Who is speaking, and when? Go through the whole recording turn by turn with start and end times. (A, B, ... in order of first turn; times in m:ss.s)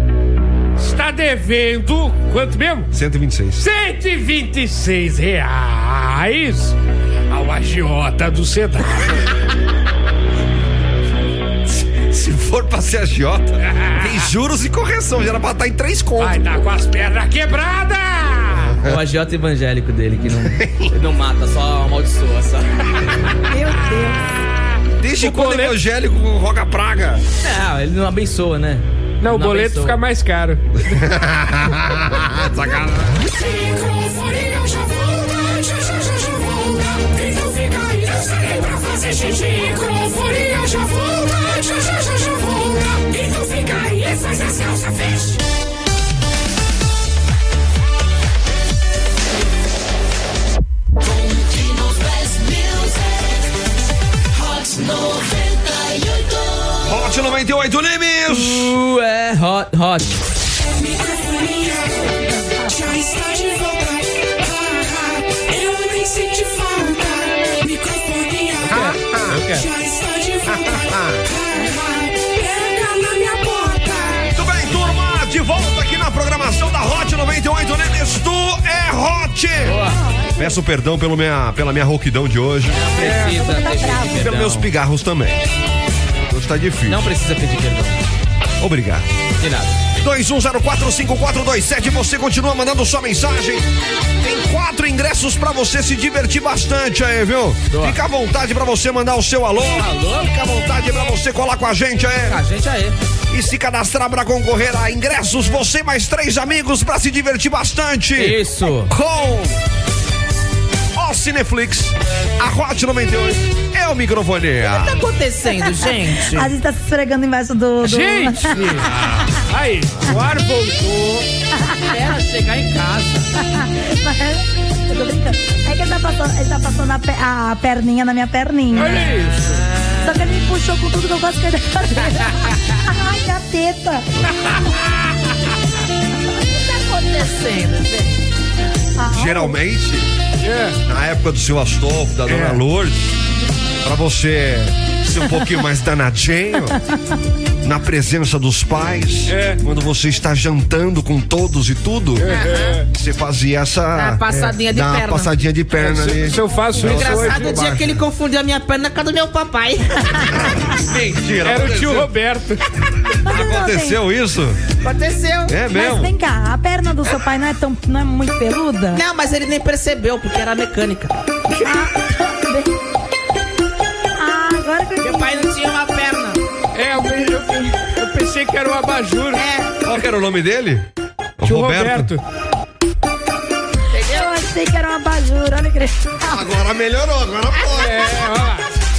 0:00.8-0:02.9 A
0:02.9-0:03.6 B
0:03.6-0:06.8 A
0:07.3-0:09.2 A
0:11.7-0:16.4 B
0:13.6-0:14.1 A
0:16.2-0:18.8 A
0:18.8-0:22.9 C
0:20.4-0:20.9 B
0:23.5-0:24.2 D
0:25.0-0:27.2 B
0:25.2-0:25.8 A
0:27.4-0:30.0 C
0:29.2-0:30.8 A
0:30.8-0:33.2 B
0:33.2-0:45.4 E
0:51.3-0:53.0 E
0:54.4-0:56.2 E
0:56.8-0:58.7 B
0:58.3-1:00.2 C
1:00.7-1:08.9 E
1:08.6-1:09.6 C
1:08.7-1:09.4 B
1:09.5-1:14.3 E
1:10.5-1:11.2 B
1:14.3-1:19.8 B
1:19.6-1:20.0 C
1:19.8-1:20.6 D
1:20.4-1:22.8 B
1:22.7-1:24.7 C
1:23.0-1:24.3 D
1:23.0-1:23.3 A
1:24.1-1:25.4 B
1:26.3-1:27.1 B
1:26.9-1:28.0 C
1:28.6-1:29.0 B
1:29.4-1:29.7 C
1:30.0-1:33.6 B
1:34.2-1:42.4 B
1:37.7-1:38.0 C
1:39.8-1:40.3 C
1:42.2-1:43.0 C
1:43.3-1:49.6 B
1:48.2-1:48.9 C
1:50.9-1:55.0 B
1:54.6-1:56.5 F
1:55.6-1:58.8 D
1:57.8-2:01.2 A
2:01.6-2:01.9 D
2:02.0-2:03.3 C
2:03.4-2:09.1 D
2:08.7-2:09.6 A
2:10.0-2:14.1 D
2:16.5-2:18.2 F
2:19.0-2:19.6 D
2:19.1-2:20.1 B
2:20.4-2:20.8 A
2:20.8-2:23.2 B
2:22.3-2:22.6 A
2:23.8-2:26.8 B
2:27.6-2:38.0 B
2:29.3-2:29.6 A
2:32.2-2:32.8 A
2:32.2-2:32.8 F
2:33.9-2:35.3 F
2:34.3-2:34.6 A
2:35.8-2:37.6 A
2:36.8-2:40.4 F
2:40.4-2:42.1 B
2:41.4-2:42.6 A
2:43.2-2:44.0 D
2:43.2-2:44.6 B
2:44.8-2:45.5 F
2:45.5-2:46.1 B
2:45.7-2:49.0 D
2:48.9-2:51.1 F
2:51.6-2:52.7 D
2:54.2-2:55.5 D
2:55.0-2:56.4 F
2:56.7-2:59.4 A
2:57.0-2:57.7 D
2:59.3-2:59.7 F
2:59.8-3:00.9 B
3:01.4-3:02.1 B
3:01.4-3:02.2 A
3:03.9-3:04.3 F
3:04.1-3:06.4 D
3:06.3-3:08.0 B
3:07.7-3:08.7 A